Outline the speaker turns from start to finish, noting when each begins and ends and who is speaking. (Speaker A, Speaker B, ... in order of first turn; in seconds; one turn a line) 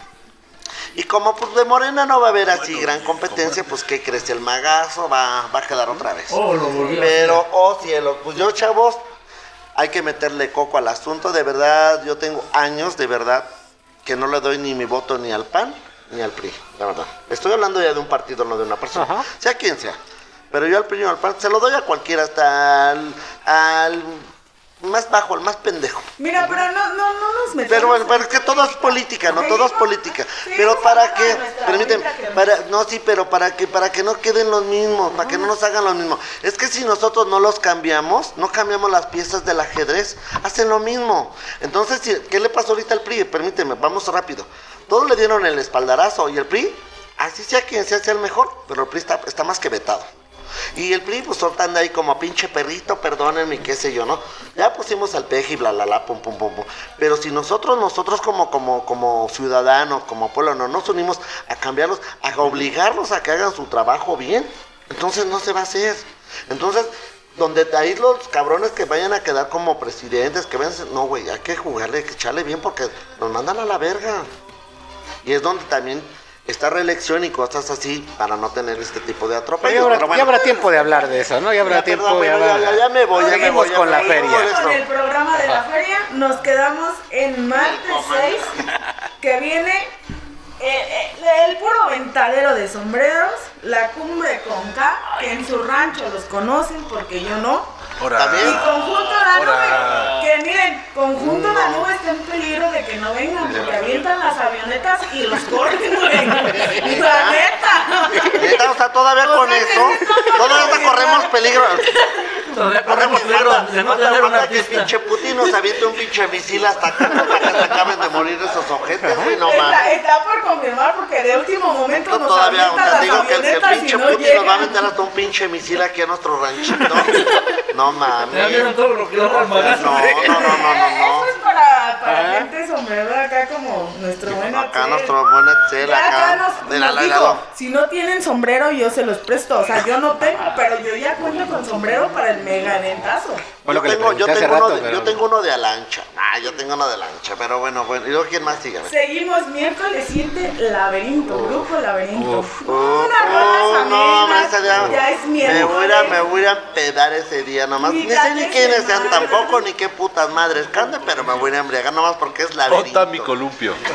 Speaker A: 0.9-9.0
Speaker B: 2.7-3.2
Speaker C: 6.3-7.4
Speaker A: 9.8-13.5
Speaker A: 14.0-20.0
Speaker D: 18.9-19.3
Speaker A: 20.5-24.3
Speaker A: 24.8-26.1
Speaker E: 26.2-32.5
Speaker A: 27.6-50.1
Speaker A: 50.7-74.3
Speaker A: 75.2-80.7
Speaker D: 79.6-84.5
Speaker A: 81.6-84.8
Speaker E: 83.1-88.5
Speaker A: 87.5-88.6
Speaker E: 89.2-89.9
Speaker E: 90.6-97.7
Speaker B: 98.0-100.2
Speaker A: 98.1-98.7
Speaker E: 98.4-112.4
Speaker A: 101.1-101.9
Speaker A: 106.5-107.4
Speaker A: 108.2-111.9
Speaker C: 112.5-114.9
Speaker A: 112.8-119.9
Speaker E: 119.3-124.8
Speaker A: 122.0-128.7
Speaker C: 128.3-130.5
Speaker A: 129.3-131.3
Speaker E: 130.2-135.1
Speaker D: 132.1-132.5
Speaker A: 134.3-137.4
Speaker E: 135.8-143.5
Speaker D: 143.6-145.2
Speaker A: 143.7-148.9
Speaker E: 148.8-156.2
Speaker D: 152.1-152.5
Speaker A: 152.6-163.3
Speaker E: 157.8-159.6
Speaker B: 162.7-163.8